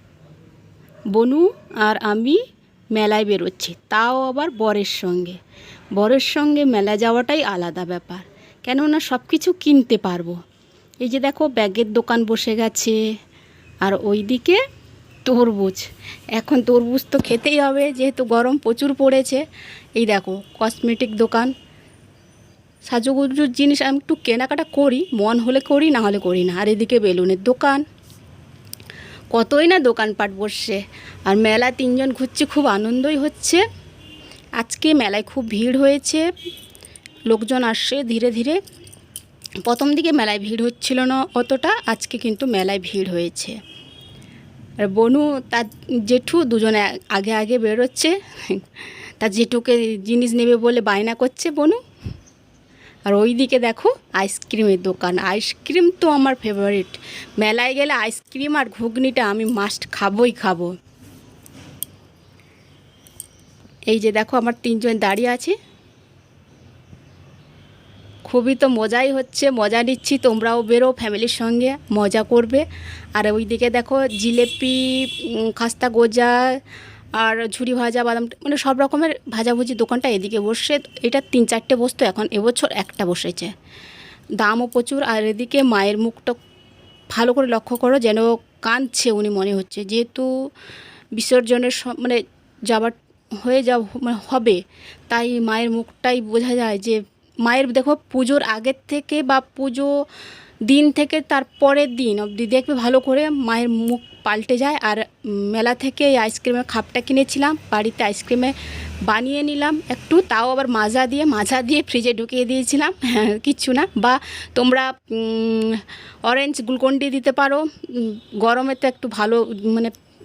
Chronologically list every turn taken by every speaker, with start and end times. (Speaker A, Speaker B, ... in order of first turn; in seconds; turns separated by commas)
Speaker A: 1.1-2.4, Speaker A: 2.9-5.4, Speaker A: 6.0-10.4, Speaker A: 11.0-13.0, Speaker A: 13.8-14.6, Speaker A: 15.2-19.4, Speaker A: 20.0-21.5, Speaker A: 22.9-27.8, Speaker A: 29.3-33.6, Speaker A: 34.6-36.3, Speaker A: 37.3-38.6, Speaker A: 39.6-43.6, Speaker A: 44.8-48.7, Speaker A: 49.2-51.8, Speaker A: 53.1-60.7, Speaker A: 63.9-65.6, Speaker A: 68.3-76.6, Speaker A: 77.2-83.5, Speaker A: 84.4-86.4, Speaker A: 87.1-90.3, Speaker A: 91.2-100.0, Speaker A: 100.7-108.5, Speaker A: 109.0-119.9